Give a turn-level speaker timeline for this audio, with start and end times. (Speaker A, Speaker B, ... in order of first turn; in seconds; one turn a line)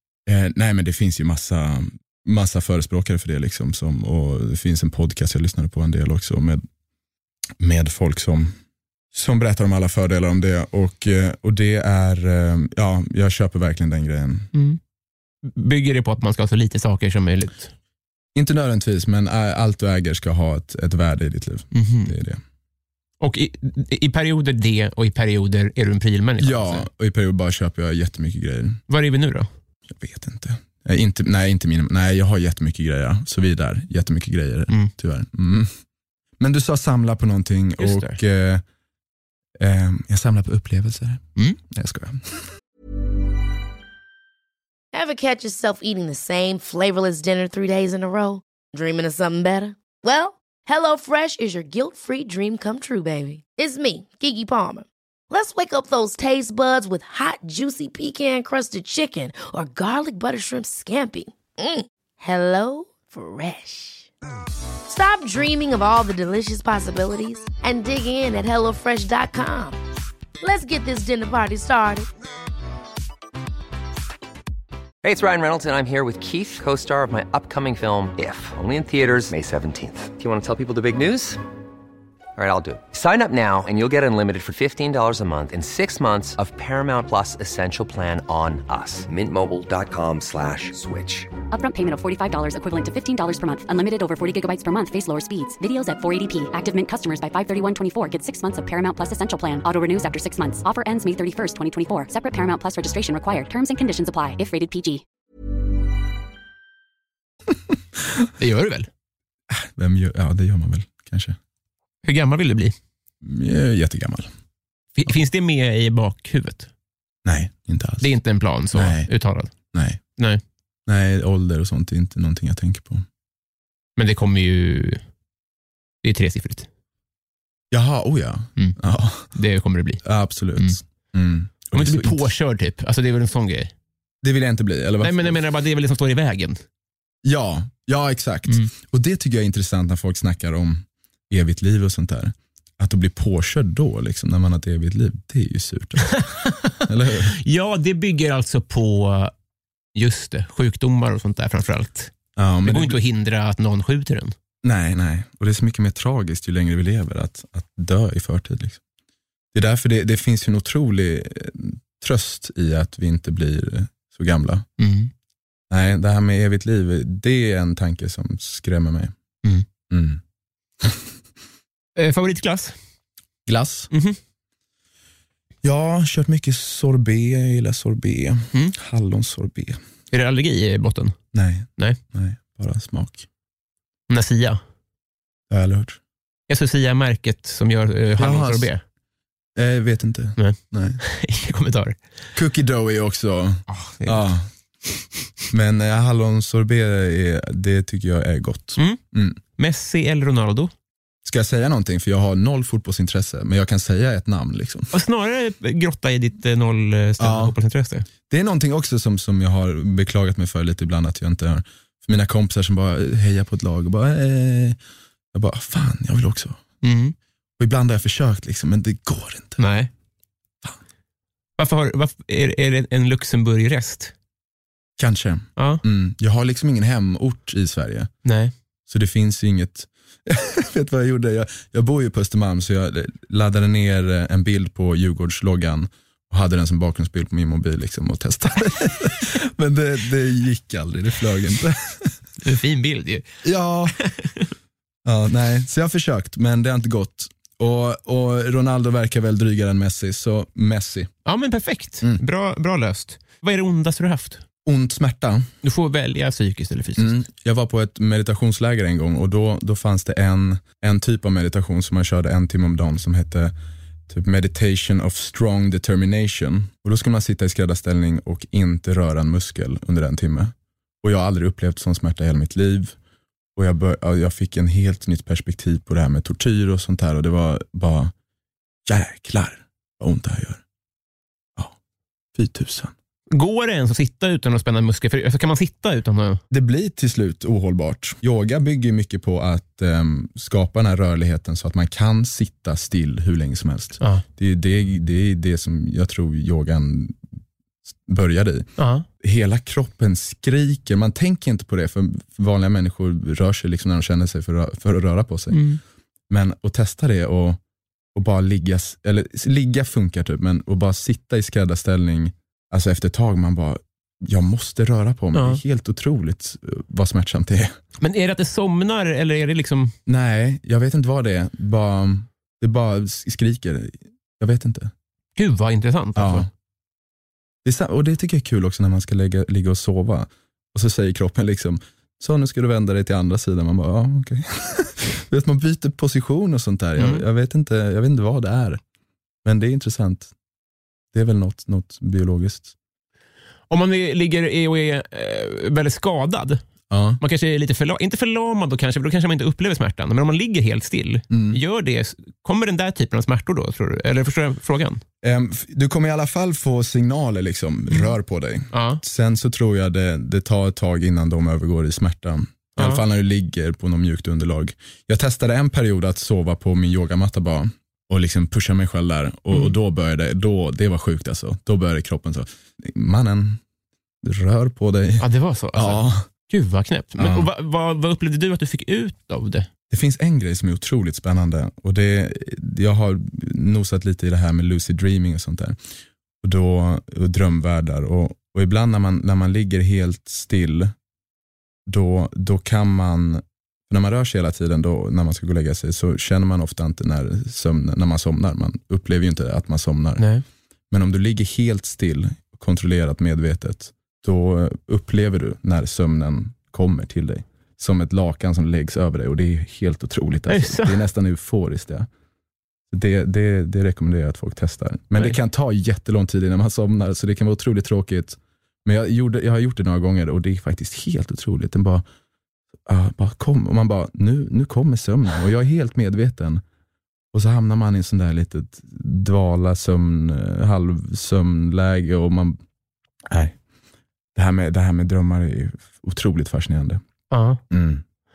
Speaker A: 0.3-6.6
Speaker A: 7.6-8.6
Speaker A: 9.1-14.5
Speaker B: 14.5-14.8
Speaker B: 15.4-17.7
Speaker A: 18.3-22.4
Speaker B: 21.7-22.1
Speaker B: 23.2-26.9
Speaker A: 26.4-28.8
Speaker B: 28.9-29.5
Speaker A: 29.9-35.7
Speaker A: 36.4-38.6
Speaker B: 37.8-38.2
Speaker A: 39.6-42.5
Speaker C: 44.9-64.1
Speaker C: 64.8-69.8
Speaker C: 70.4-72.1
Speaker D: 75.0-81.4
Speaker D: 82.3-91.3
Speaker E: 91.5-105.0
Speaker B: 108.4-108.9
Speaker A: 109.5-111.4
Speaker B: 112.0-112.7
Speaker A: 113.2-114.3
Speaker B: 115.0-116.7
Speaker A: 117.2-118.1
Speaker B: 118.0-119.5
Speaker A: 118.7-119.1
Speaker A: 119.7-120.0
Speaker A: 120.9-123.0
Speaker B: 124.0-125.0
Speaker B: 126.0-126.7
Speaker A: 127.7-129.3
Speaker B: 129.3-130.0
Speaker A: 130.0-132.3
Speaker B: 131.7-133.7
Speaker A: 134.2-135.4
Speaker B: 135.0-136.6
Speaker A: 137.2-146.2
Speaker B: 146.0-146.8
Speaker A: 146.8-147.4
Speaker B: 147.3-149.3
Speaker B: 149.9-152.1
Speaker A: 152.4-153.0
Speaker B: 152.6-154.3
Speaker A: 154.6-158.8
Speaker A: 159.5-164.7
Speaker B: 164.8-165.1
Speaker A: 165.7-169.1
Speaker A: 169.9-170.2
Speaker B: 172.0-172.7
Speaker A: 173.4-173.9
Speaker B: 173.9-174.2
Speaker A: 175.6-179.8
Speaker B: 180.1-181.2
Speaker A: 181.3-183.2
Speaker B: 184.1-184.6
Speaker A: 185.5-186.0
Speaker B: 186.5-188.8
Speaker A: 188.2-188.7
Speaker A: 189.6-191.0
Speaker B: 190.4-192.0
Speaker A: 192.3-194.5
Speaker B: 193.7-194.2
Speaker A: 195.5-199.4
Speaker B: 199.6-200.7
Speaker A: 201.2-204.9
Speaker B: 204.9-208.1
Speaker A: 207.2-207.5
Speaker A: 208.3-214.8
Speaker A: 215.3-216.6
Speaker B: 216.8-217.1
Speaker A: 217.6-219.6
Speaker B: 219.6-219.9
Speaker B: 221.6-224.1
Speaker A: 225.0-228.1
Speaker B: 225.6-225.8
Speaker B: 228.2-228.5
Speaker A: 228.9-242.2
Speaker B: 242.4-243.3
Speaker A: 243.4-244.0
Speaker B: 244.0-244.5
Speaker A: 245.0-251.1
Speaker B: 251.2-254.4
Speaker A: 254.6-255.5
Speaker B: 255.6-257.2
Speaker A: 257.0-263.5
Speaker A: 264.1-272.9
Speaker A: 273.6-278.1
Speaker A: 278.9-280.6
Speaker A: 282.3-282.9
Speaker B: 283.3-286.4
Speaker A: 286.5-297.2
Speaker A: 298.1-298.7
Speaker B: 298.8-299.1
Speaker A: 299.2-305.6
Speaker B: 305.5-305.8
Speaker A: 306.3-307.6
Speaker A: 308.1-317.7
Speaker B: 315.3-315.6
Speaker B: 318.0-319.9
Speaker A: 320.1-324.9
Speaker B: 325.4-326.5
Speaker A: 326.1-326.5
Speaker A: 327.6-338.8
Speaker B: 337.0-337.2
Speaker A: 339.4-340.3
Speaker A: 341.1-342.7
Speaker B: 343.7-346.6
Speaker A: 346.9-347.2
Speaker B: 347.2-355.0
Speaker A: 351.3-351.6
Speaker A: 355.2-373.6
Speaker B: 358.7-359.0
Speaker A: 374.2-376.2
Speaker B: 375.2-379.7
Speaker A: 377.2-377.5
Speaker A: 379.9-385.8
Speaker A: 386.4-390.9
Speaker A: 391.9-400.2
Speaker B: 400.2-400.4
Speaker A: 400.9-412.1
Speaker B: 410.5-411.0
Speaker A: 412.9-422.0
Speaker A: 422.9-426.6
Speaker A: 427.3-432.6
Speaker A: 433.2-433.6
Speaker A: 434.3-437.0
Speaker B: 437.3-437.6
Speaker A: 437.7-438.0